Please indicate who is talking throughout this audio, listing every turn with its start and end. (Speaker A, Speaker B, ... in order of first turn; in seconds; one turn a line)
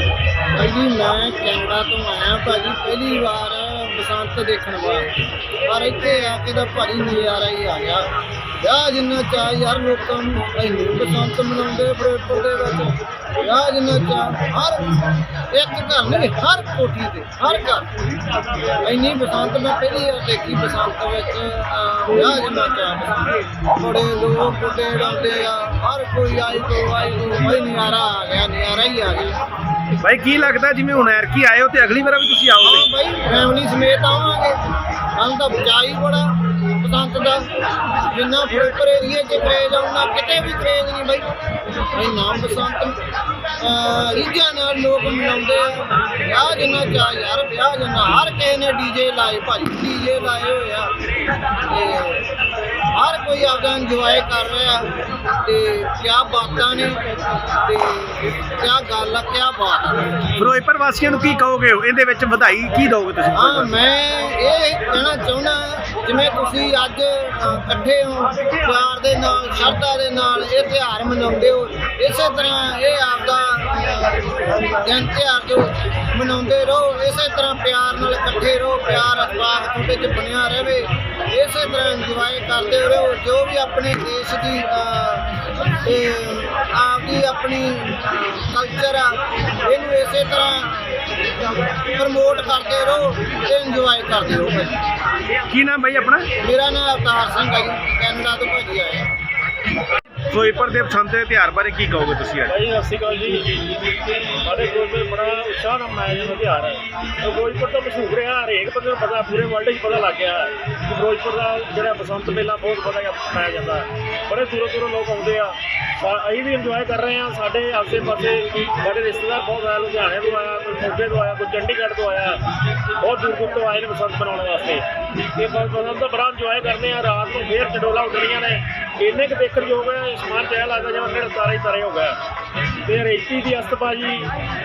Speaker A: 0.5-5.1
Speaker A: 5.6-8.1
Speaker A: 8.6-17.9
Speaker A: 18.8-29.4
Speaker B: 30.0-32.9
Speaker A: 32.6-34.6
Speaker A: 35.1-37.5
Speaker A: 38.0-41.3
Speaker A: 41.9-60.2
Speaker B: 60.3-63.8
Speaker A: 63.3-91.1
Speaker A: 91.7-94.8
Speaker B: 95.4-96.3
Speaker A: 96.4-99.1
Speaker B: 100.1-102.5
Speaker C: 102.5-132.2
Speaker C: 132.8-134.3